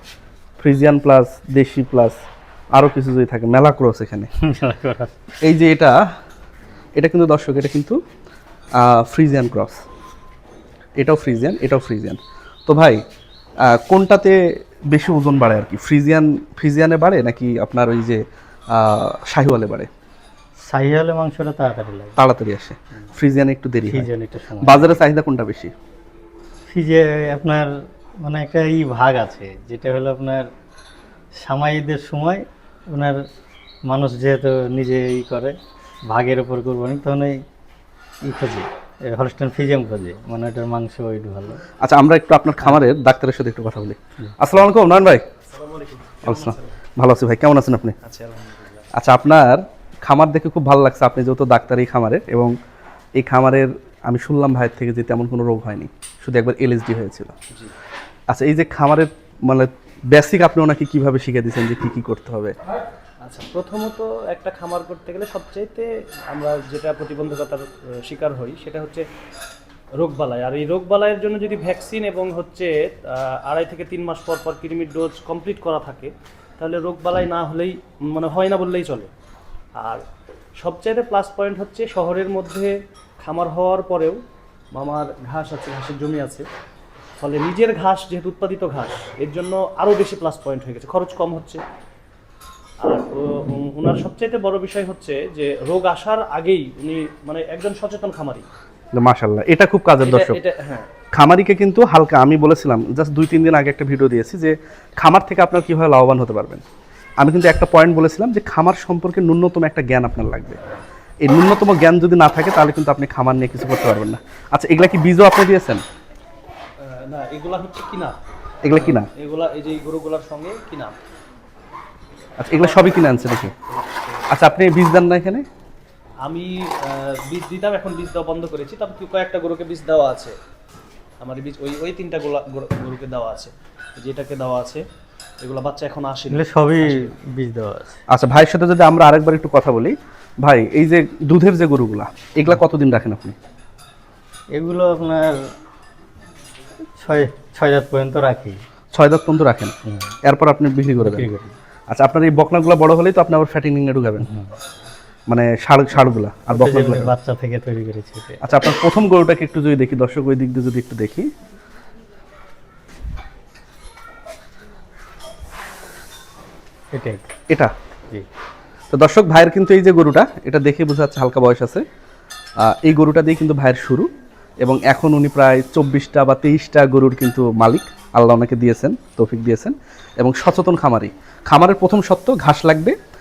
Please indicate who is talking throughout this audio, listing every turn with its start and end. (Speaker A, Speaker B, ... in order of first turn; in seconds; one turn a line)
Speaker A: 0.6-2.2
Speaker A: 2.7-4.3
Speaker B: 4.5-5.3
Speaker A: 5.4-6.0
Speaker A: 7.0-8.0
Speaker A: 8.8-9.8
Speaker A: 11.0-13.0
Speaker A: 13.7-14.4
Speaker A: 14.9-19.9
Speaker B: 20.7-22.2
Speaker A: 22.2-24.1
Speaker B: 23.8-24.9
Speaker A: 24.6-25.7
Speaker B: 26.7-27.7
Speaker B: 28.2-30.5
Speaker B: 31.4-33.2
Speaker B: 33.9-35.5
Speaker B: 36.1-37.4
Speaker B: 38.2-41.6
Speaker A: 41.8-45.2
Speaker C: 45.5-46.7
Speaker A: 46.2-48.0
Speaker C: 48.0-48.9
Speaker A: 49.0-52.5
Speaker A: 53.2-57.3
Speaker A: 58.3-62.5
Speaker C: 63.2-69.0
Speaker C: 70.0-79.1
Speaker C: 79.8-80.0
Speaker C: 80.6-84.2
Speaker C: 84.7-86.5
Speaker C: 87.2-91.6
Speaker C: 92.8-98.5
Speaker A: 98.9-100.4
Speaker C: 100.0-100.9
Speaker A: 101.1-106.6
Speaker A: 107.2-110.6
Speaker A: 111.2-115.8
Speaker C: 116.8-118.2
Speaker A: 118.6-119.1
Speaker C: 118.7-121.0
Speaker A: 122.4-123.5
Speaker C: 122.5-124.3
Speaker A: 124.3-125.5
Speaker C: 126.2-130.3
Speaker C: 131.2-134.8
Speaker C: 135.4-137.1
Speaker B: 136.3-138.0
Speaker A: 138.1-143.4
Speaker B: 144.6-145.3
Speaker B: 147.0-148.6
Speaker A: 148.9-151.3
Speaker B: 149.9-150.2
Speaker B: 150.9-151.5
Speaker A: 151.9-154.3
Speaker B: 154.2-154.5
Speaker A: 155.3-157.1
Speaker B: 156.5-158.4
Speaker A: 158.4-161.3
Speaker B: 166.9-167.3
Speaker A: 168.9-171.8
Speaker A: 172.6-174.1
Speaker A: 174.6-183.0